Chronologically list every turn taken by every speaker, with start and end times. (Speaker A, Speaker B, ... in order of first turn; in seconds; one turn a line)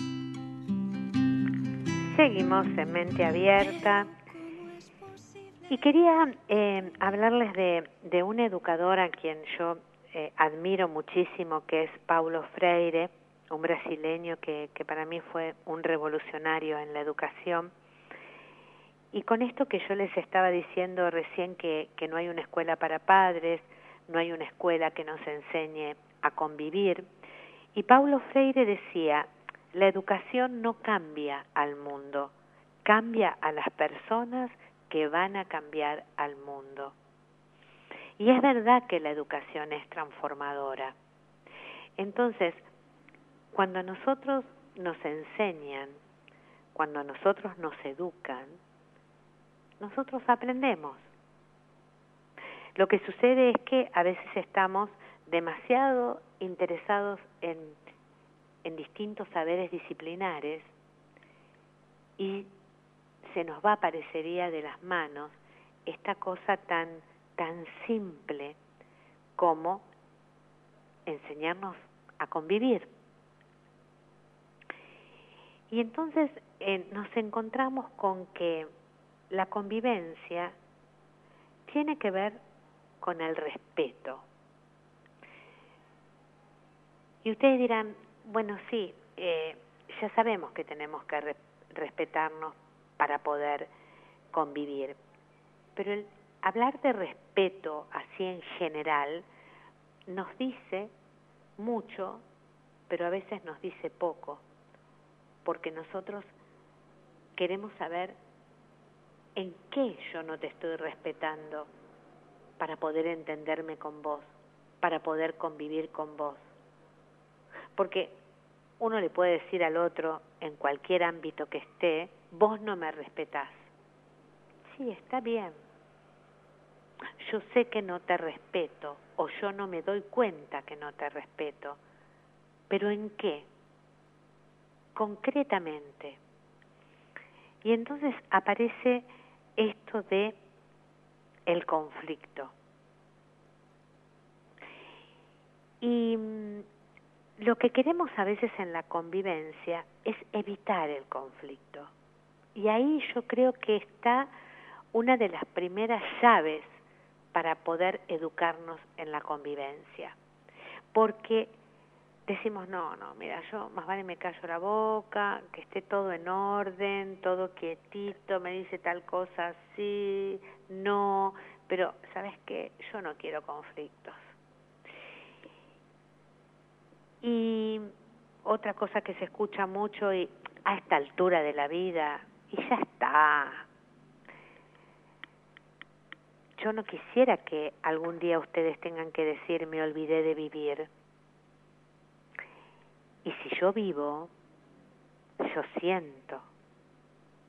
Speaker A: 2.1-4.1
Speaker A: 5.7-17.7
Speaker A: 19.1-27.1
Speaker A: 27.7-32.3
Speaker A: 32.8-36.9
Speaker A: 38.2-41.0
Speaker A: 42.0-42.6
Speaker A: 43.5-46.0
Speaker A: 46.7-48.6
Speaker A: 49.8-51.0
Speaker A: 52.8-57.8
Speaker A: 58.6-60.7
Speaker A: 62.2-62.5
Speaker A: 63.2-68.6
Speaker A: 69.3-69.9
Speaker A: 71.0-72.9
Speaker A: 75.7-78.7
Speaker A: 79.3-80.5
Speaker A: 81.7-82.4
Speaker A: 83.0-84.2
Speaker A: 87.2-93.7
Speaker A: 94.3-95.0
Speaker A: 95.7-99.2
Speaker A: 100.1-100.9
Speaker A: 101.6-102.2
Speaker A: 102.9-104.4
Speaker A: 105.4-106.3
Speaker A: 107.3-108.2
Speaker A: 109.3-111.7
Speaker A: 112.6-116.4
Speaker A: 117.7-118.2
Speaker A: 118.8-123.7
Speaker A: 124.7-125.6
Speaker A: 127.2-131.8
Speaker A: 132.7-133.5
Speaker A: 134.9-136.2
Speaker A: 137.6-140.4
Speaker A: 141.4-142.5
Speaker A: 145.8-146.7
Speaker A: 147.4-151.9
Speaker A: 152.5-154.3
Speaker A: 154.9-156.8
Speaker A: 157.3-160.2
Speaker A: 160.9-161.5
Speaker A: 162.2-174.2
Speaker A: 177.2-177.9
Speaker A: 178.4-183.7
Speaker A: 186.6-190.9
Speaker A: 193.2-194.3
Speaker A: 195.4-196.4